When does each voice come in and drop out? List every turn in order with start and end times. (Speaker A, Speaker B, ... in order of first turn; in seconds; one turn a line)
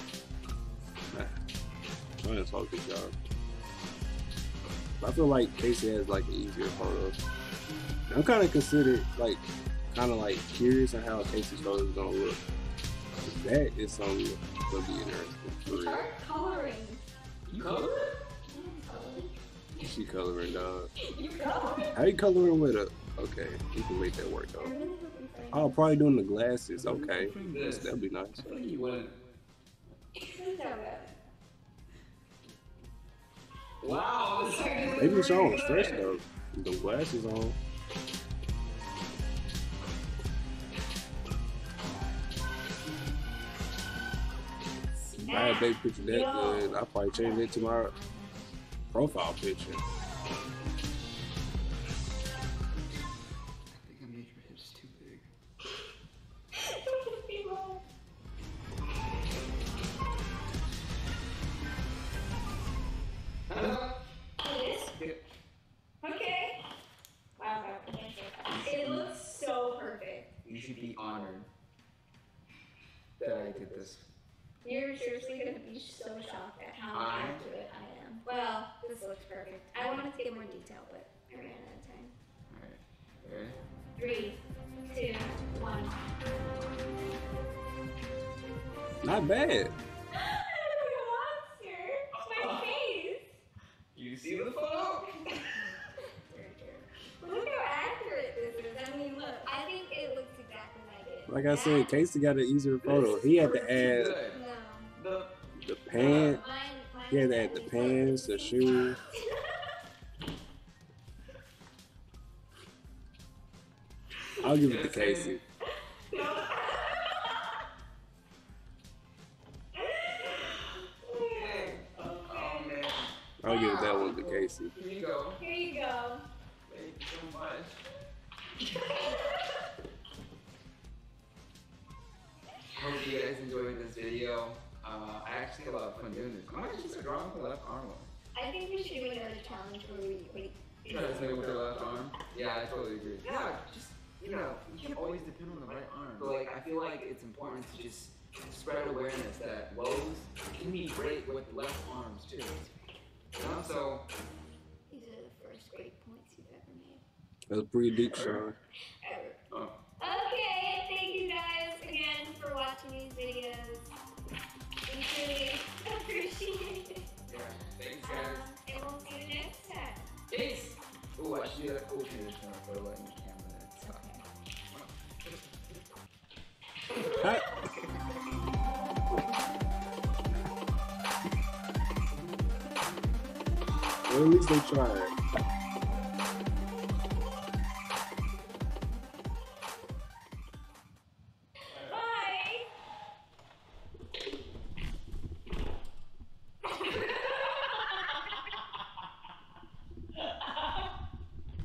Speaker A: 1.1-1.4
Speaker A: 2.2-3.1
Speaker A: 5.0-7.2
Speaker A: 8.1-12.4
Speaker A: 13.2-16.1
Speaker B: 15.7-17.0
Speaker C: 17.5-18.1
Speaker B: 18.5-19.4
Speaker A: 19.8-20.9
Speaker B: 21.0-22.0
Speaker A: 21.9-24.7
Speaker B: 24.6-25.8
Speaker A: 25.5-28.5
Speaker C: 26.8-29.2
Speaker B: 30.2-31.1
Speaker C: 33.8-36.1
Speaker A: 35.0-37.6
Speaker C: 45.0-45.3
Speaker B: 45.2-48.6
Speaker A: 45.3-47.9
Speaker A: 48.9-49.8
Speaker C: 53.7-55.3
Speaker B: 56.6-57.8
Speaker C: 63.5-63.9
Speaker B: 64.4-64.9
Speaker C: 64.9-65.2
Speaker B: 66.0-66.6
Speaker B: 67.4-70.3
Speaker C: 68.5-69.1
Speaker C: 70.4-71.5
Speaker C: 73.2-74.1
Speaker B: 74.6-82.1
Speaker C: 76.9-77.4
Speaker C: 82.5-83.6
Speaker B: 84.0-84.4
Speaker B: 84.9-86.0
Speaker A: 89.0-89.7
Speaker B: 90.1-93.3
Speaker C: 92.1-92.8
Speaker C: 93.9-95.7
Speaker B: 95.8-102.0
Speaker A: 101.3-104.2
Speaker C: 102.8-104.4
Speaker B: 103.4-105.0
Speaker C: 105.0-105.3
Speaker A: 105.6-106.4
Speaker B: 106.0-109.5
Speaker A: 107.1-109.0
Speaker C: 114.3-115.4
Speaker A: 114.4-115.4
Speaker B: 116.1-117.3
Speaker B: 119.8-122.7
Speaker C: 121.3-125.4
Speaker A: 123.4-124.7
Speaker B: 125.4-126.2
Speaker C: 126.7-127.8
Speaker C: 132.7-138.1
Speaker B: 138.3-141.2
Speaker C: 140.8-152.6
Speaker C: 153.3-154.1
Speaker B: 154.9-157.0
Speaker A: 157.5-158.6
Speaker C: 158.1-158.5
Speaker B: 159.0-159.4
Speaker C: 159.5-159.8
Speaker B: 160.0-163.9
Speaker B: 164.9-167.1
Speaker C: 167.3-168.5
Speaker B: 168.0-170.1
Speaker C: 170.3-174.1
Speaker B: 173.8-174.2
Speaker C: 174.7-175.3
Speaker C: 176.9-177.3
Speaker A: 177.1-177.5
Speaker A: 184.1-185.1
Speaker C: 191.7-192.1
Speaker B: 191.8-192.7
Speaker C: 200.2-200.7